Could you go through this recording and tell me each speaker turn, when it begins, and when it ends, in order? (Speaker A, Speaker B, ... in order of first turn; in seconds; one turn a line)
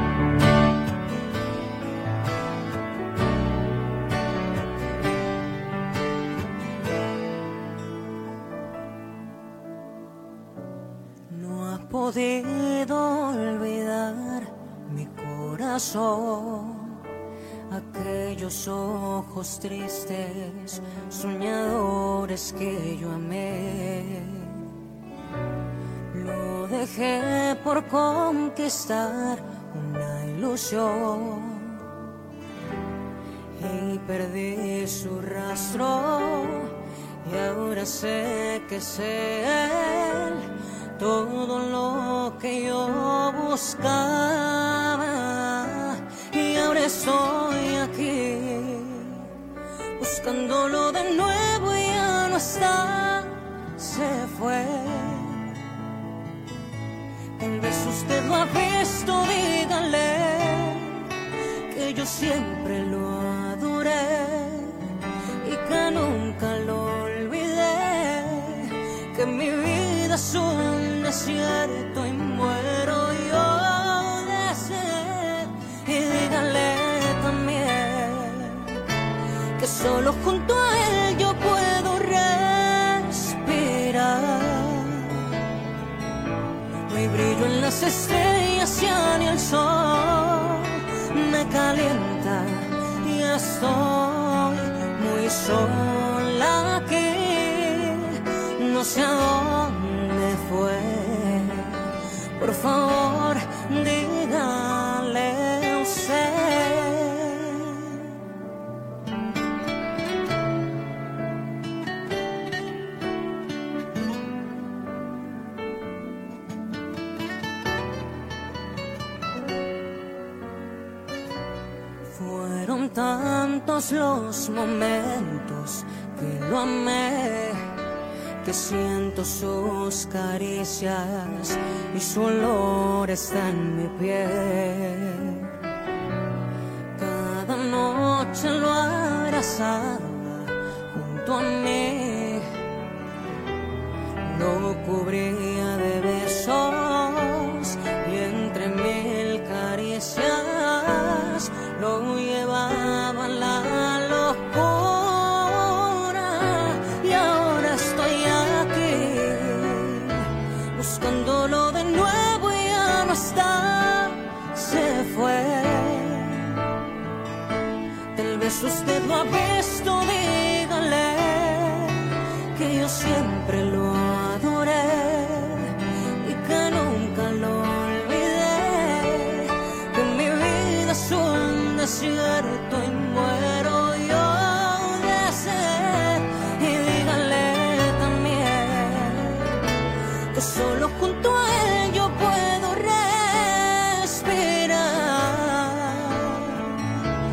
Speaker A: 11.3-17.0
Speaker A: 17.7-24.6
Speaker A: 26.1-31.9
Speaker A: 33.6-49.3
Speaker A: 50.0-55.5
Speaker A: 57.4-61.1
Speaker A: 61.7-78.8
Speaker A: 79.6-85.3
Speaker A: 86.9-108.1
Speaker A: 122.1-127.7
Speaker A: 128.4-135.5
Speaker A: 136.9-142.5
Speaker A: 144.2-166.7
Speaker A: 168.2-189.6
Speaker A: 190.3-197.1